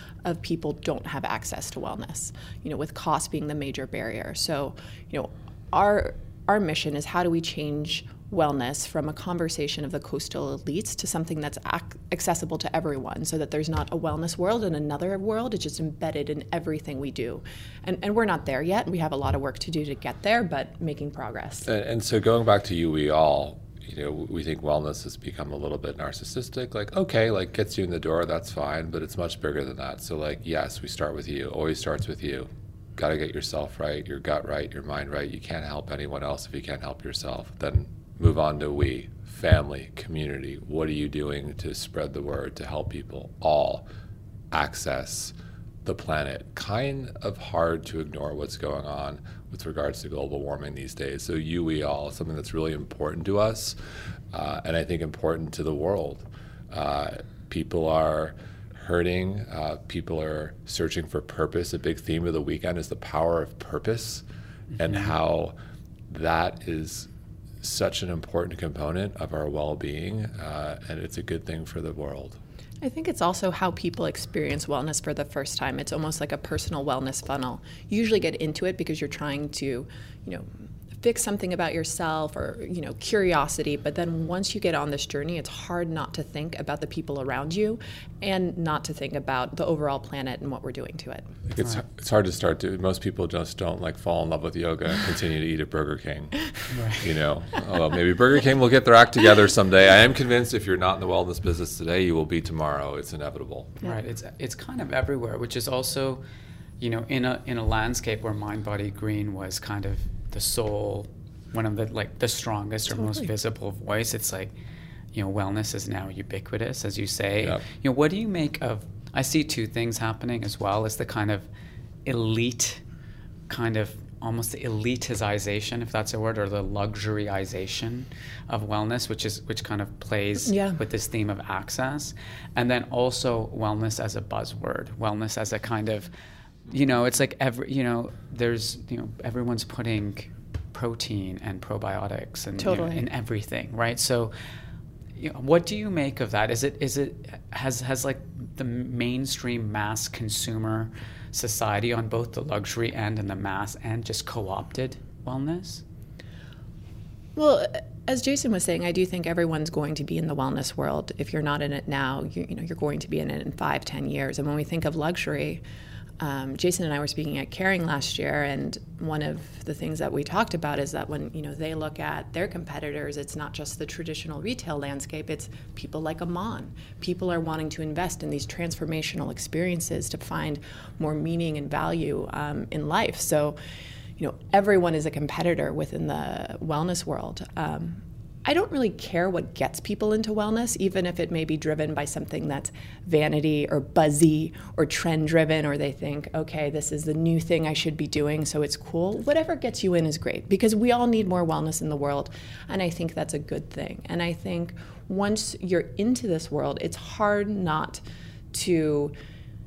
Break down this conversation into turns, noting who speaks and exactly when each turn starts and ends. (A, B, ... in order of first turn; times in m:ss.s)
0:00.2-0:21.7 A
0:21.6-0:43.9 B
0:44.5-0:45.3 B
0:45.8-0:53.8 B
0:54.3-1:04.2 B
1:04.8-1:05.5 B
1:04.8-1:05.1 C
1:06.1-1:07.1 B
1:07.6-1:12.4 B
1:12.8-1:31.3 A
1:31.5-1:43.7 B
1:36.7-1:37.0 C
1:43.8-1:46.2 C
1:46.8-1:54.5 C
1:52.9-1:53.3 A
1:55.1-2:01.5 C
2:02.0-2:02.8 C
2:03.5-2:16.1 C
2:10.4-2:10.8 A
2:16.7-2:24.3 C
2:22.6-2:23.0 A
2:25.2-2:35.8 C
2:37.4-2:45.6 A
2:46.2-3:03.6 A
3:04.2-3:28.0 A
3:28.5-3:29.1 A